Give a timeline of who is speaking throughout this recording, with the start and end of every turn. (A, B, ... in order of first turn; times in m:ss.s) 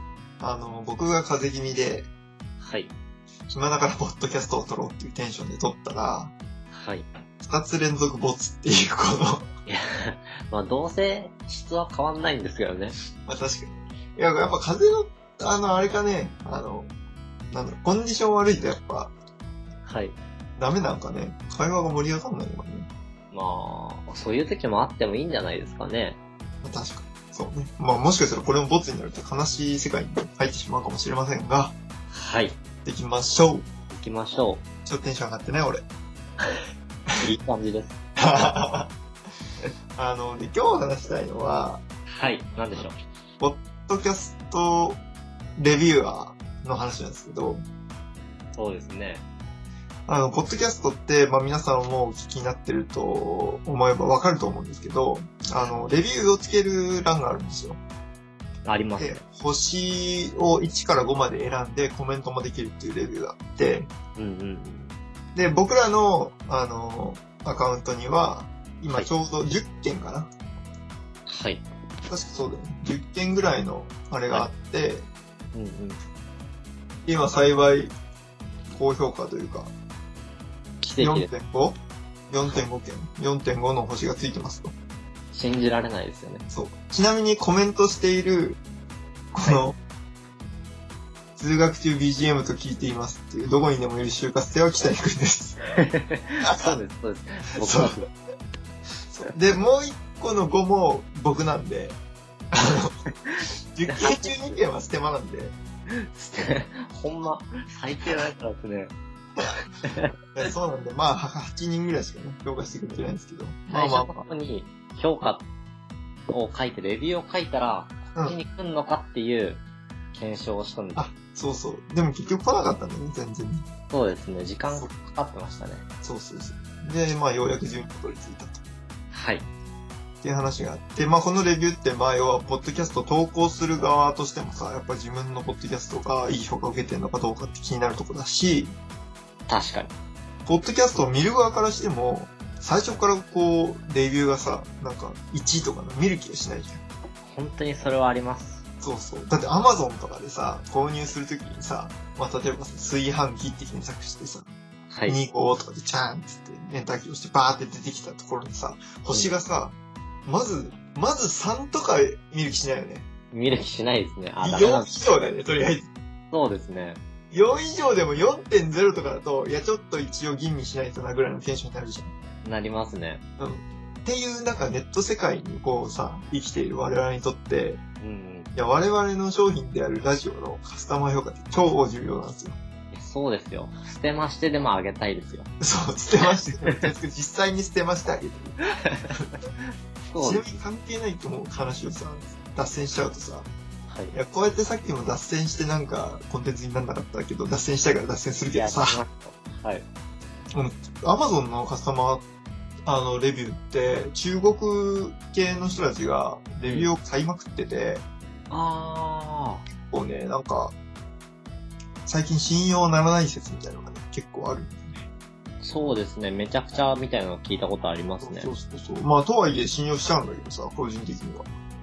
0:00.4-0:02.1 A
0:02.6-0:02.9 B
0:03.5-0:06.3 A
0:06.7-0:07.1 B
0:07.4-0:09.5 A
0:09.6-0:13.0 B
0:13.2-0:16.9 A
0:17.5-0:19.1 A
0:19.8-0:20.2 B
0:20.6-0:22.9 A
0:23.3-0:26.2 B
0:26.6-0:31.7 A
0:32.1-0:32.6 B
0:32.8-0:33.6 A
0:33.9-0:34.6 B
0:34.8-0:35.8 A
0:37.2-0:37.9 B
0:38.2-0:38.9 A
0:39.9-0:41.8 A
0:42.1-0:42.9 B
0:43.4-0:45.0 A
0:45.6-0:47.6 A
0:48.6-0:49.2 B
0:50.1-0:57.8 A
0:58.6-0:59.2 B
0:59.0-1:03.9 A
1:04.2-1:04.9 B
1:05.3-1:10.3 A
1:11.3-1:11.6 B
1:12.1-1:15.1 A
1:15.5-1:16.0 B
1:17.0-1:17.9 A
1:18.7-1:19.7 A
1:20.8-1:21.3 B
1:21.0-1:21.8 A
1:22.3-1:24.7 A
1:25.3-1:26.4 B
1:26.5-1:28.6 A
1:29.3-1:29.8 A
1:31.4-1:35.6 A
1:35.7-1:38.1 B
1:36.4-1:36.8 A
1:37.6-1:38.0 A
1:39.1-1:42.0 A
1:42.5-1:43.0 A
1:43.2-1:44.4 B
1:43.7-1:45.5 A
1:45.9-1:48.9 B
1:49.8-1:50.1 B
1:50.3-1:54.2 A
1:53.7-1:55.4 B
1:56.3-1:59.6 B
2:00.1-2:01.1 B
2:00.9-2:03.7 A
2:03.9-2:05.8 B
2:06.0-2:08.6 A
2:09.1-2:09.5 B
2:10.2-2:18.8 A
2:19.5-2:19.9 B
2:20.4-2:26.8 A
2:27.2-2:28.6 B
2:28.8-2:34.5 A
2:34.9-2:35.2 B
2:35.1-2:39.7 A
2:40.2-2:43.1 A
2:43.3-2:45.0 B
2:44.4-2:45.9 A
2:46.3-2:47.0 B
2:47.3-2:52.1 A
2:52.4-2:53.2 B
2:53.4-2:57.8 A
2:58.0-2:58.5 B
2:58.5-3:02.6 A
3:02.9-3:05.5 B
3:05.6-3:08.6 A
3:06.4-3:06.8 B
3:08.8-3:09.2 B
3:10.1-3:10.4 B
3:10.2-3:13.5 A
3:13.9-3:14.1 B
3:14.1-3:19.0 A
3:18.5-3:19.8 B
3:20.5-3:22.2 A
3:22.8-3:28.0 A
3:26.6-3:26.9 B
3:28.5-3:29.6 B
3:29.9-3:30.7 A
3:32.0-3:35.0 A
3:35.6-3:38.5 B
3:38.2-3:41.5 A